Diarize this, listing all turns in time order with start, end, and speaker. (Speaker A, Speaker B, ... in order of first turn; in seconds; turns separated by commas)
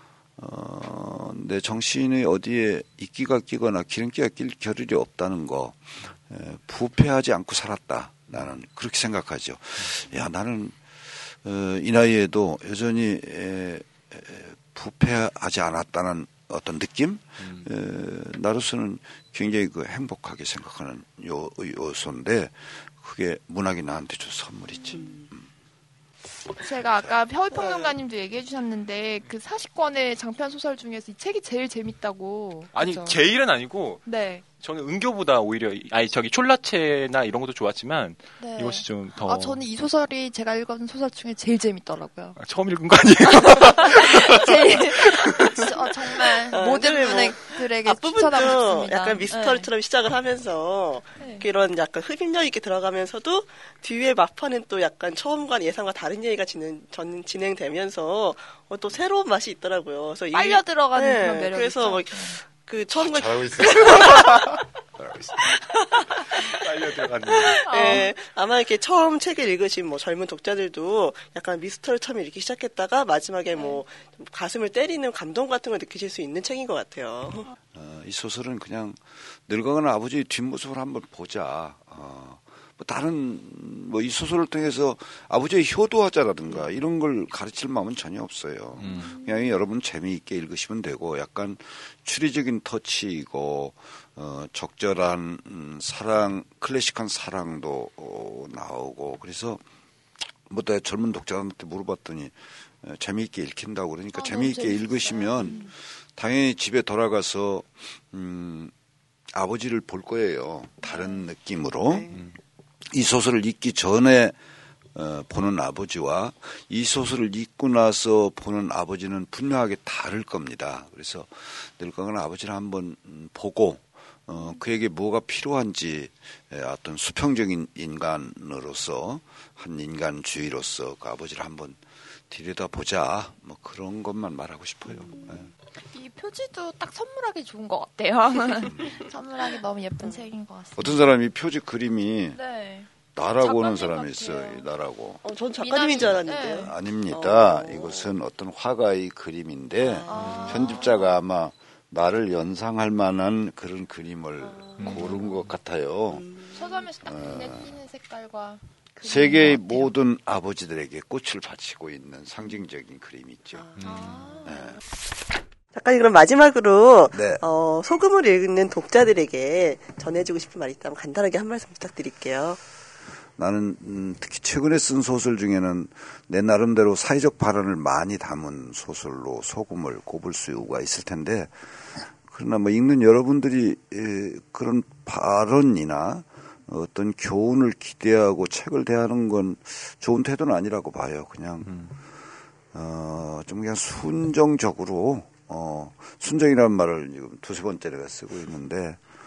Speaker A: 0.4-25.4, Speaker B: 24.9-25.2, Speaker C: 24.9-25.2, Speaker B: 26.6-33.2, Speaker D: 32.7-34.0, Speaker B: 34.0-34.4, Speaker D: 34.6-39.6, Speaker B: 38.4-42.4, Speaker D: 42.4-45.9, Speaker B: 43.4-49.7, Speaker C: 46.5-64.5, Speaker B: 51.2-51.5, Speaker B: 60.3-62.4, Speaker A: 63.0-65.5, Speaker C: 65.5-66.6, Speaker D: 66.6-67.9, Speaker C: 67.3-77.5, Speaker B: 67.7-68.1, Speaker B: 73.5-73.8, Speaker A: 77.7-99.6, Speaker D: 88.8-89.1, Speaker A: 100.5-108.7, Speaker B: 104.1-105.7, Speaker A: 109.3-112.2, Speaker A: 112.9-114.4, Speaker A: 114.9-135.5, Speaker B: 135.9-141.0, Speaker A: 140.8-142.4, Speaker B: 142.3-144.6, Speaker A: 143.2-145.2, Speaker C: 145.2-148.0, Speaker B: 145.6-146.7, Speaker A: 146.6-156.3, Speaker C: 149.8-150.9, Speaker B: 150.1-151.2, Speaker D: 154.8-155.1, Speaker B: 154.9-155.2, Speaker C: 156.3-156.5, Speaker B: 156.5-159.9, Speaker A: 157.0-157.7, Speaker A: 159.0-163.7, Speaker D: 163.8-164.3, Speaker B: 163.8-164.6, Speaker A: 164.4-164.8, Speaker C: 165.7-172.6, Speaker A: 167.1-167.4, Speaker A: 173.4-181.5, Speaker A: 182.1-191.7, Speaker D: 191.6-191.9, Speaker A: 192.7-199.0